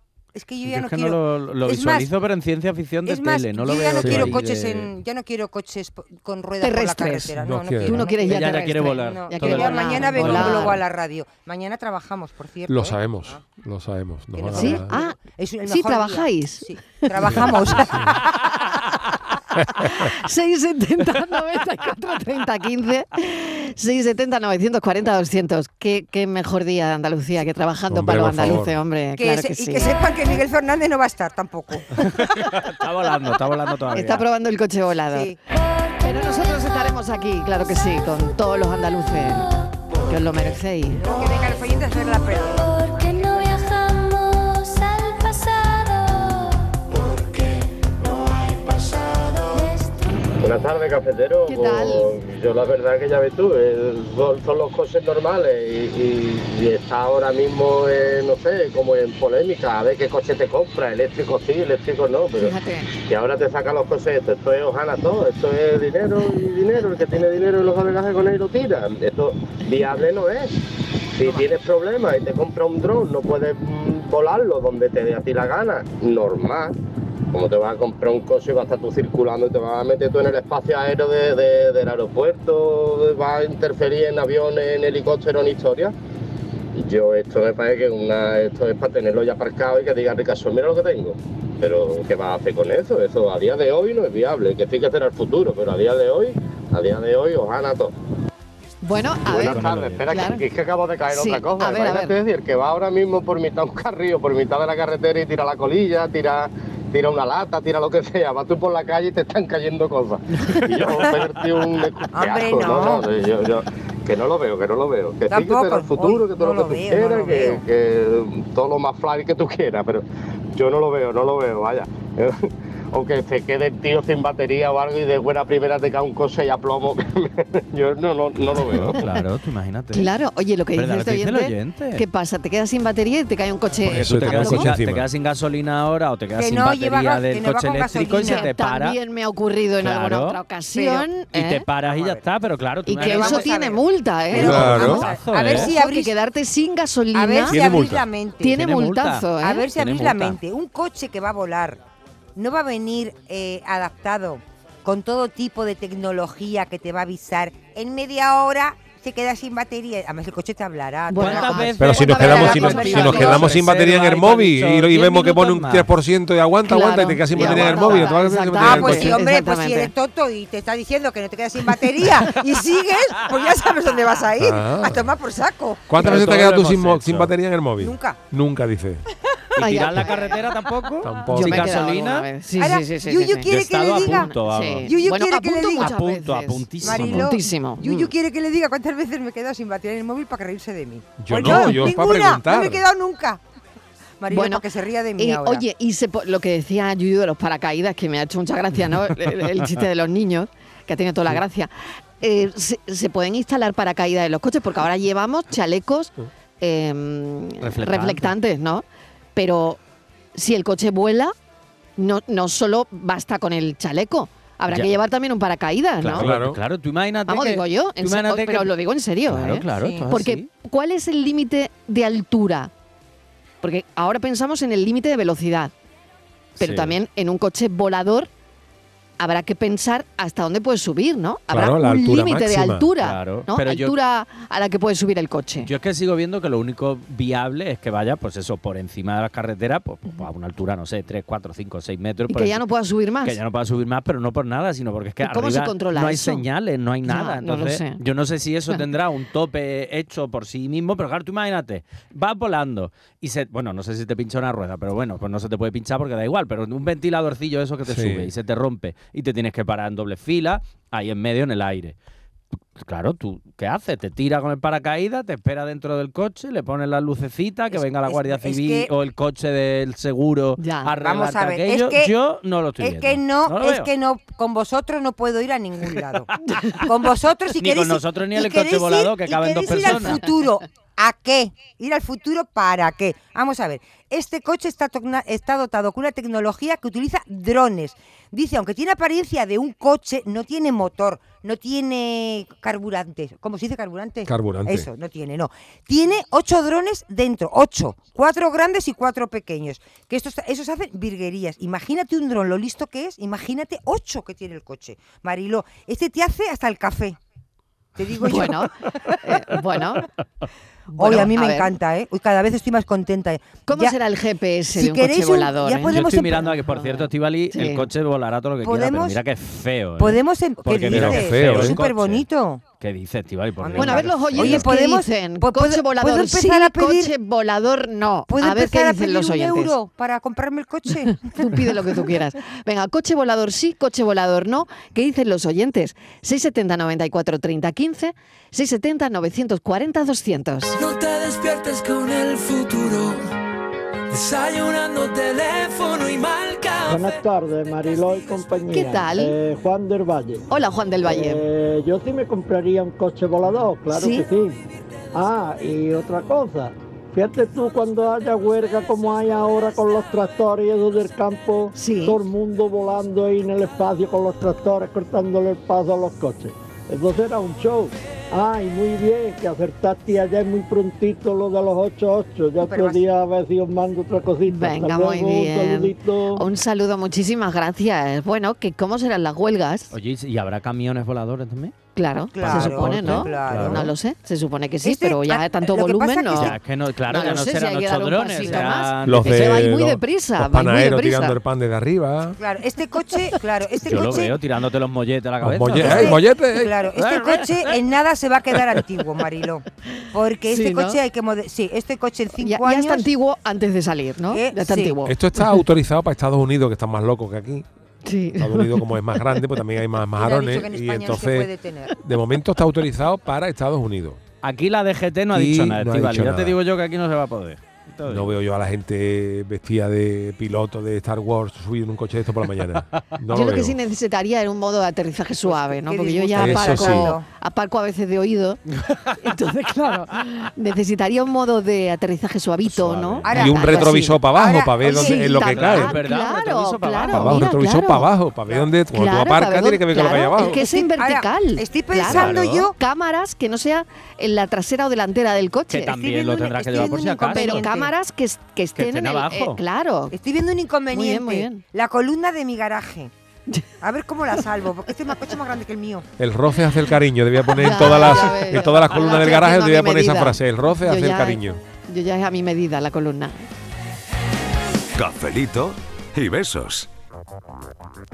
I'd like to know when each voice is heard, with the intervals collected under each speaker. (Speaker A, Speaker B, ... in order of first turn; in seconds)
Speaker A: 0.3-2.1, 3.0-13.4, 14.3-18.5, 29.2-31.9, 35.1-35.4, 41.0-43.5, 112.1-113.0, 115.3-117.6, 136.3-138.4, 140.7-141.1, 141.9-142.2, 143.0-146.1, 147.1-148.6, 149.4-151.8, 152.3-163.5, 167.4-175.9, 177.8-178.2, 182.6-184.3, 184.8-186.0, 186.8-193.4, 194.2-195.6, 219.8-220.1, 267.7-268.9, 271.0-272.1, 272.8-307.2, 307.9-308.6, 311.0-313.9, 314.7-316.5, 318.6-319.2, 320.0-322.6, 323.6-327.1, 328.3-332.1, 372.6-373.1, 382.3-383.9, 384.8-386.6, 388.4-388.7, 392.4-394.3, 395.8-403.1, 404.3-405.0, 410.2-411.9, 425.4-427.2, 433.2-435.3, 440.4-442.7, 445.9-447.9, 450.1-453.1, 453.8-456.1
Speaker B: 0.6-4.9, 8.2-10.8, 31.9-34.2, 99.3-100.1, 128.8-130.1, 130.7-132.0, 133.8-139.0, 139.8-140.4, 141.3-143.5, 144.3-145.7, 148.5-150.4, 161.2-165.9, 176.0-177.3, 179.6-182.3, 183.5-184.9, 185.8-187.3, 207.6-208.3, 216.0-218.7, 219.3-220.5, 226.6-227.0, 233.0-233.9, 235.6-242.6, 243.2-261.9, 262.8-273.9, 277.6-280.2, 315.9-322.2, 322.8-324.7, 379.9-381.7, 382.4-383.9, 386.3-389.7, 393.9-396.2, 397.0-397.8, 414.4-418.4, 428.8-429.1, 432.6-433.3, 435.4-437.4, 442.1-442.7, 445.7-447.7, 448.8-449.6
Speaker C: 4.0-4.4, 7.4-8.0, 12.7-14.9, 17.2-18.2, 19.6-19.9, 27.9-28.7, 133.9-135.1, 144.3-145.1, 147.5-148.1, 161.8-169.2, 174.4-175.1, 175.9-179.0, 181.0-181.8, 191.2-192.8, 216.1-216.6, 231.5-232.9, 257.8-258.3, 294.3-294.9, 320.9-321.8, 389.0-392.4, 395.4-396.7, 405.1-407.6, 408.4-414.2, 415.3-416.6, 418.1-423.8, 426.4-427.1, 433.3-435.9, 437.1-440.6, 456.2-461.6
Speaker D: 6.6-7.3, 7.8-10.8, 14.5-17.5, 19.8-29.9, 33.9-35.3, 36.0-39.5, 40.0-41.0, 51.5-52.1, 62.4-62.9, 98.8-100.4, 101.1-102.1, 129.9-134.7, 138.2-141.6, 142.8-147.6, 148.4-149.7, 161.1-163.5, 166.7-169.9, 179.6-180.4, 181.3-188.1, 194.3-194.6, 195.2-208.8, 209.3-209.8, 210.3-211.3, 212.0-216.2, 217.3-222.7, 223.6-225.7, 226.6-228.3, 229.2-235.7, 242.3-243.4, 245.2-246.4, 247.0-248.0, 270.6-270.9, 308.3-310.1, 310.9-311.7, 313.6-316.0, 316.7-317.9, 323.8-329.7, 331.2-340.8, 348.7-349.3, 350.5-351.4, 353.9-354.2, 361.7-362.2, 374.5-379.9, 381.9-386.6, 387.1-391.4, 400.5-401.0, 402.4-405.6, 408.0-409.2, 423.3-428.6, 429.2-434.2, 434.8-438.1, 438.9-445.9, 447.3-450.1, 450.9-451.6, 457.5-463.5
Speaker E: 42.6-46.6, 49.5-49.9
Speaker F: 50.4-62.5, 63.1-70.5, 71.2-76.7, 77.3-85.9, 86.7-97.9, 99.3-129.0
Speaker G: 340.8-343.3, 344.1-347.2
Speaker H: 346.9-350.4, 351.0-354.6, 355.1-376.4
Speaker I: 464.9-466.9